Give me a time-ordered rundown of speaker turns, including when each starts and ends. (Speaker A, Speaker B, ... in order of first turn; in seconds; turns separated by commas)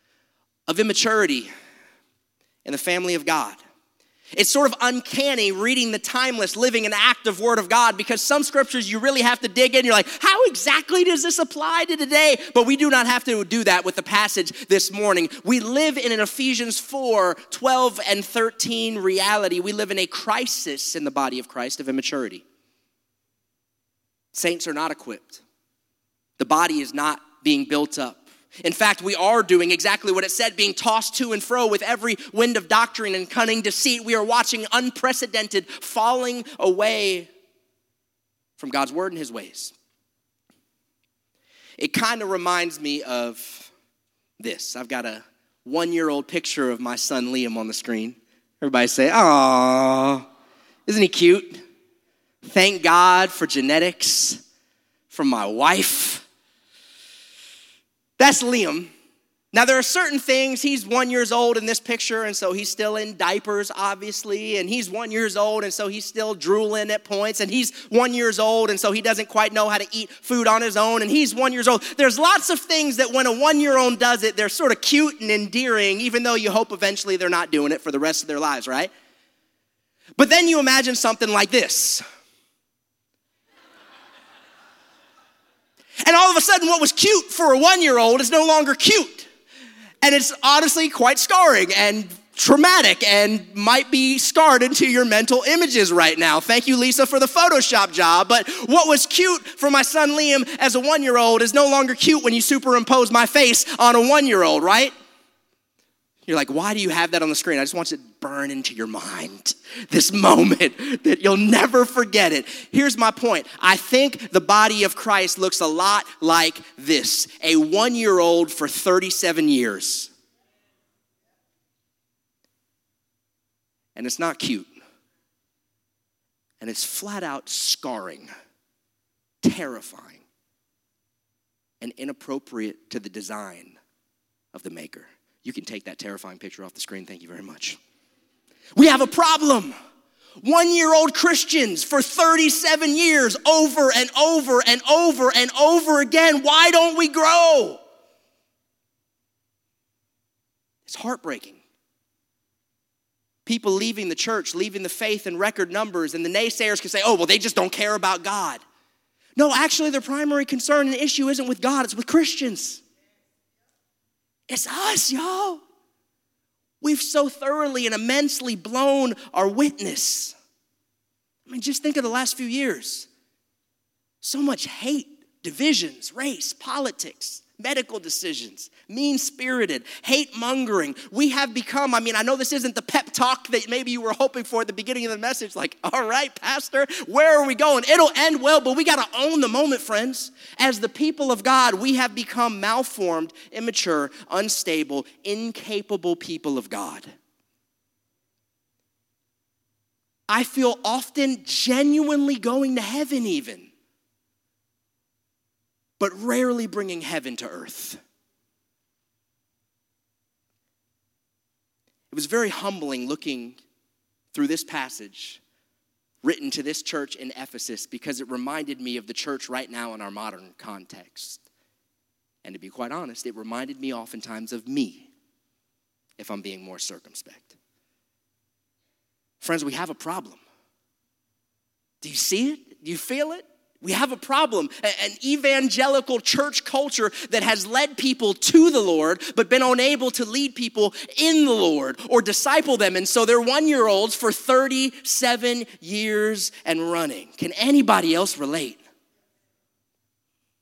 Speaker A: 0.7-1.5, Speaker A: 2.6-3.6, Speaker A: 4.3-22.4, Speaker A: 24.3-25.4, Speaker A: 26.4-37.3, Speaker A: 38.6-39.7, Speaker A: 41.8-43.7, Speaker A: 44.4-50.3, Speaker A: 50.9-51.6, Speaker A: 52.4-54.4, Speaker A: 55.1-56.3, Speaker A: 58.2-58.9, Speaker A: 59.5-78.9, Speaker A: 80.2-82.0, Speaker A: 86.0-89.3, Speaker A: 90.0-104.9, Speaker A: 106.3-120.1, Speaker A: 124.0-124.7, Speaker A: 126.6-128.3, Speaker A: 129.4-130.2, Speaker A: 131.8-133.8, Speaker A: 134.5-137.8, Speaker A: 138.8-139.7, Speaker A: 140.4-147.8, Speaker A: 150.9-151.6, Speaker A: 153.5-158.6, Speaker A: 159.4-162.8, Speaker A: 164.5-165.6, Speaker A: 166.8-170.3, Speaker A: 171.5-173.1, Speaker A: 174.2-197.1, Speaker A: 200.3-203.7, Speaker A: 206.0-208.0, Speaker A: 212.1-213.6, Speaker A: 214.3-215.4, Speaker A: 216.2-221.4, Speaker A: 222.4-225.1, Speaker A: 226.2-227.6, Speaker A: 229.4-230.4, Speaker A: 232.0-248.8